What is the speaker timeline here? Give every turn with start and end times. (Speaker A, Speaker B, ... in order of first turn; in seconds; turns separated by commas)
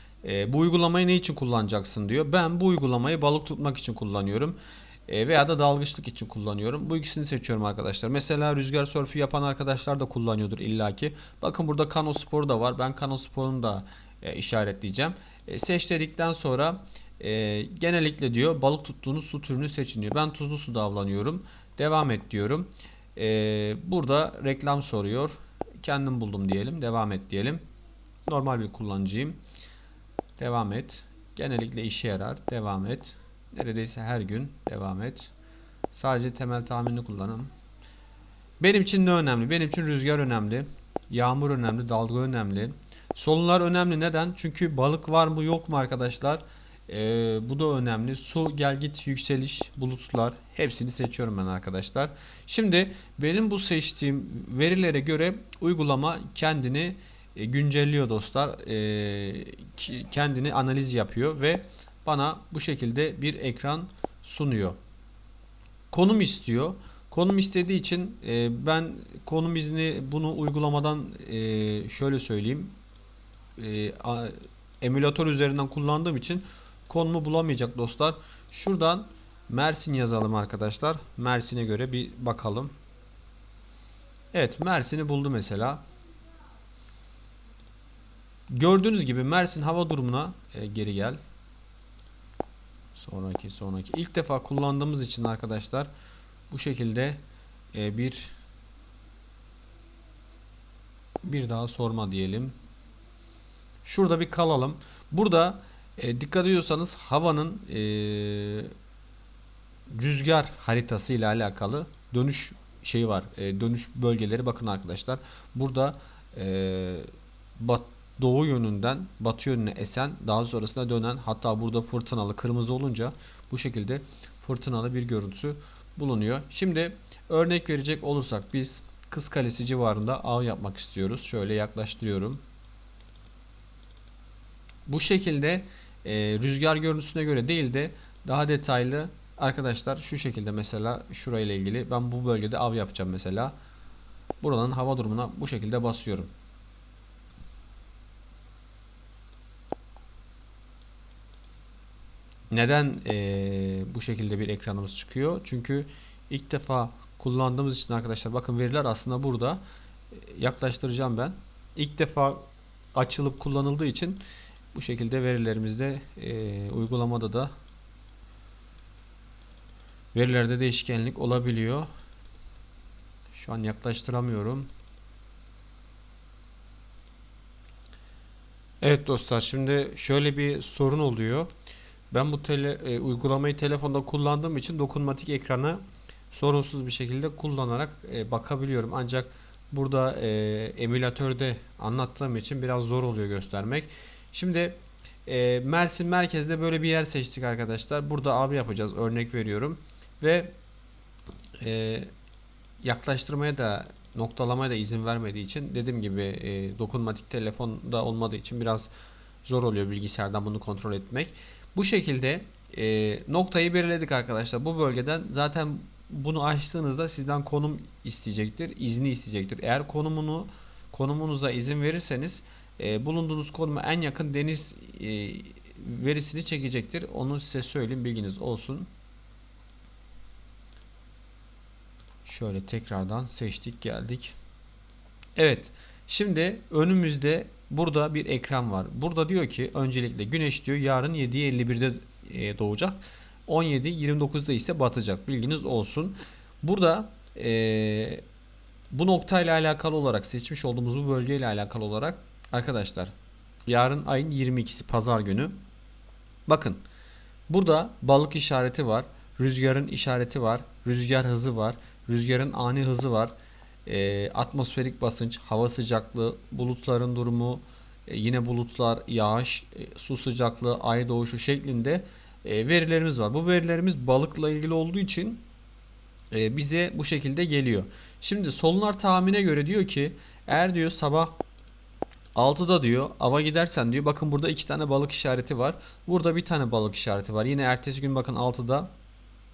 Speaker A: 0.2-27.6, Speaker A: 28.3-29.4, Speaker A: 30.4-35.3, Speaker A: 35.9-37.5, Speaker A: 38.6-64.8, Speaker A: 65.9-72.7, Speaker A: 73.6-82.7, Speaker A: 84.3-85.8, Speaker A: 88.5-91.2, Speaker A: 92.9-95.9, Speaker A: 96.5-97.2, Speaker A: 97.7-98.3, Speaker A: 101.2-102.5, Speaker A: 103.8-108.7, Speaker A: 109.9-132.4, Speaker A: 134.8-143.5, Speaker A: 144.4-146.3, Speaker A: 152.5-159.6, Speaker A: 160.1-164.2, Speaker A: 164.7-167.5, Speaker A: 170.1-171.9, Speaker A: 173.3-174.7, Speaker A: 178.8-181.5, Speaker A: 182.1-200.5, Speaker A: 201.6-202.1, Speaker A: 202.8-208.9, Speaker A: 209.4-228.9, Speaker A: 232.2-234.3, Speaker A: 235.3-248.2, Speaker A: 248.9-253.1, Speaker A: 253.7-255.6, Speaker A: 256.5-256.8, Speaker A: 257.5-263.3, Speaker A: 263.9-275.4, Speaker A: 276.3-281.4, Speaker A: 282.3-288.9